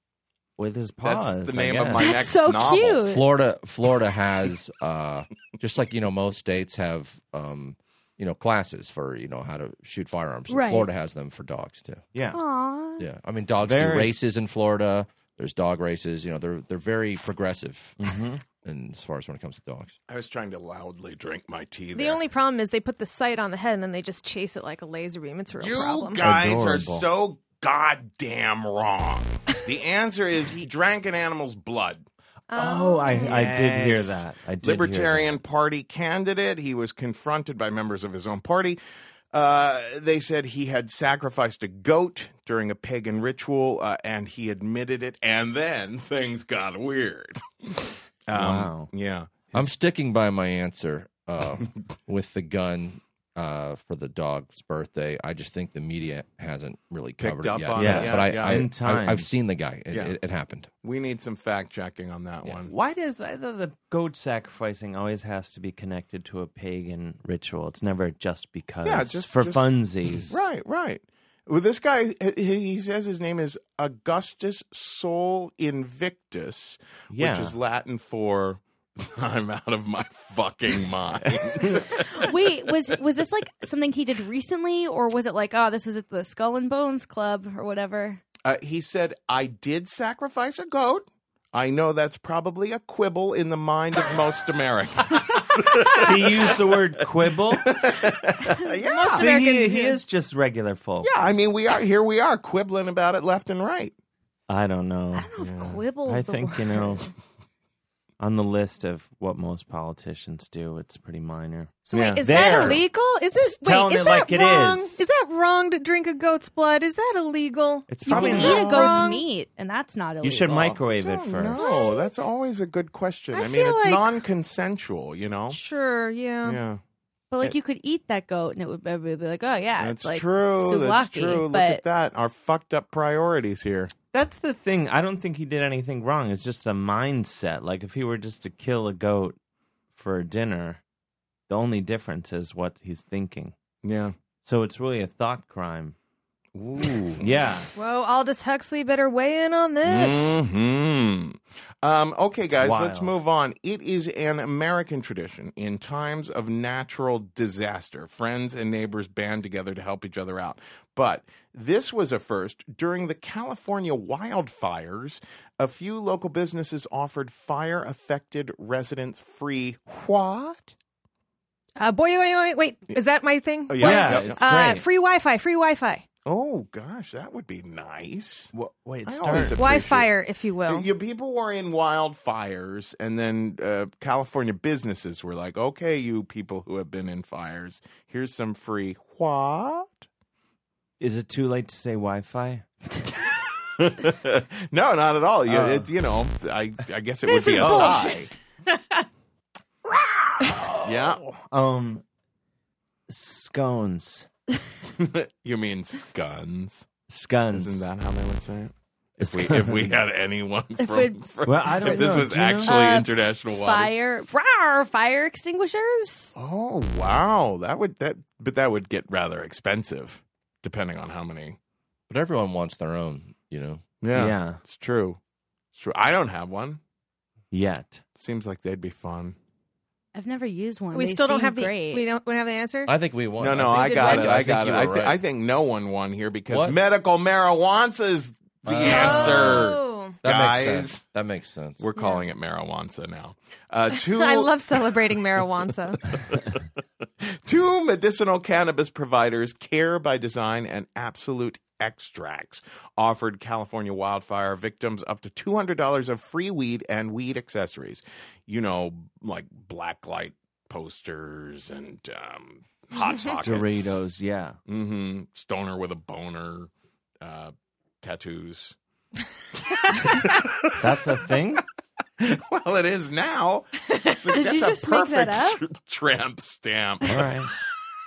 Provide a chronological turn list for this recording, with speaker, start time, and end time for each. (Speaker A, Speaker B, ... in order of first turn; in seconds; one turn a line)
Speaker A: 0.6-2.1
Speaker B: 1.0-3.0
Speaker C: 2.0-3.2
Speaker D: 3.0-12.0
Speaker C: 10.5-10.9
Speaker A: 12.1-12.4
Speaker C: 12.3-13.1
Speaker D: 13.0-18.1
Speaker A: 13.6-14.1
Speaker A: 18.0-18.4
Speaker D: 18.6-19.9
Speaker B: 20.1-22.2
Speaker E: 21.9-26.2
Speaker B: 25.6-38.8
Speaker A: 26.2-27.1
Speaker E: 32.5-33.4
Speaker A: 32.6-35.4
Speaker B: 39.3-49.7
Speaker A: 48.3-48.9
Speaker D: 49.5-60.7
Speaker B: 57.2-58.7
Speaker A: 57.8-59.3
Speaker B: 59.9-60.2
Speaker B: 60.8-62.7
Speaker A: 62.6-70.5
Speaker B: 68.8-82.7
Speaker A: 77.1-77.5
Speaker C: 82.1-88.2
Speaker B: 88.4-96.7
Speaker A: 95.9-97.8
Speaker B: 97.6-99.3
Speaker E: 98.8-100.0
Speaker A: 99.1-101.3
Speaker B: 101.0-103.9
Speaker A: 104.5-105.3
Speaker C: 105.1-107.0
Speaker B: 105.4-105.8
Speaker A: 106.0-107.1
Speaker A: 108.2-112.9
Speaker E: 111.8-119.2
Speaker B: 112.2-112.8
Speaker A: 113.5-115.0
Speaker A: 117.9-119.0
Speaker B: 118.1-119.1
Speaker C: 118.1-120.7
Speaker A: 120.2-121.8
Speaker B: 120.5-125.6
Speaker E: 121.6-122.1
Speaker E: 123.3-124.1
Speaker E: 125.5-126.6
Speaker B: 126.4-126.8
Speaker C: 127.3-131.8
Speaker B: 129.8-133.9
Speaker A: 134.1-139.4
Speaker A: 139.9-140.8
Speaker A: 141.5-143.5
Speaker B: 143.8-144.1
Speaker A: 144.4-145.9
Speaker B: 146.5-147.3
Speaker A: 147.2-147.7
Speaker E: 147.8-150.4
Speaker B: 149.8-170.7
Speaker A: 152.5-153.2
Speaker E: 171.8-176.0
Speaker B: 173.7-174.4
Speaker A: 173.8-174.8
Speaker B: 176.2-178.5
Speaker A: 178.5-179.6
Speaker B: 179.0-180.1
Speaker E: 179.5-180.9
Speaker B: 180.7-190.0
Speaker A: 191.0-192.6
Speaker B: 193.9-198.3
Speaker A: 195.5-195.9
Speaker E: 197.3-198.2
Speaker A: 197.5-198.1
Speaker A: 200.5-202.0
Speaker B: 200.7-201.2
Speaker A: 203.1-204.2
Speaker B: 205.0-206.9
Speaker A: 207.1-207.8
Speaker B: 207.5-213.9
Speaker A: 209.2-210.1
Speaker C: 210.8-211.2
Speaker A: 211.4-212.8
Speaker C: 211.8-212.1
Speaker C: 212.6-216.3
Speaker B: 216.3-221.6
Speaker D: 222.1-223.8
Speaker B: 224.0-225.2
Speaker A: 224.1-224.6
Speaker B: 225.7-226.8
Speaker A: 227.5-228.0
Speaker B: 228.2-229.3
Speaker C: 230.1-232.0
Speaker E: 230.9-232.9
Speaker D: 232.8-235.2
Speaker B: 233.4-241.0
Speaker E: 233.6-234.3
Speaker D: 236.5-236.8
Speaker D: 238.7-239.7
Speaker E: 238.8-240.2
Speaker D: 240.2-241.8
Speaker B: 241.8-244.5
Speaker E: 242.0-242.2
Speaker E: 243.9-246.0
Speaker B: 247.4-264.0
Speaker A: 263.4-264.6
Speaker B: 264.7-266.7
Speaker B: 267.2-268.8
Speaker B: 269.9-270.8
Speaker A: 270.8-271.6
Speaker B: 272.2-277.2
Speaker C: 274.3-275.6
Speaker A: 277.0-277.5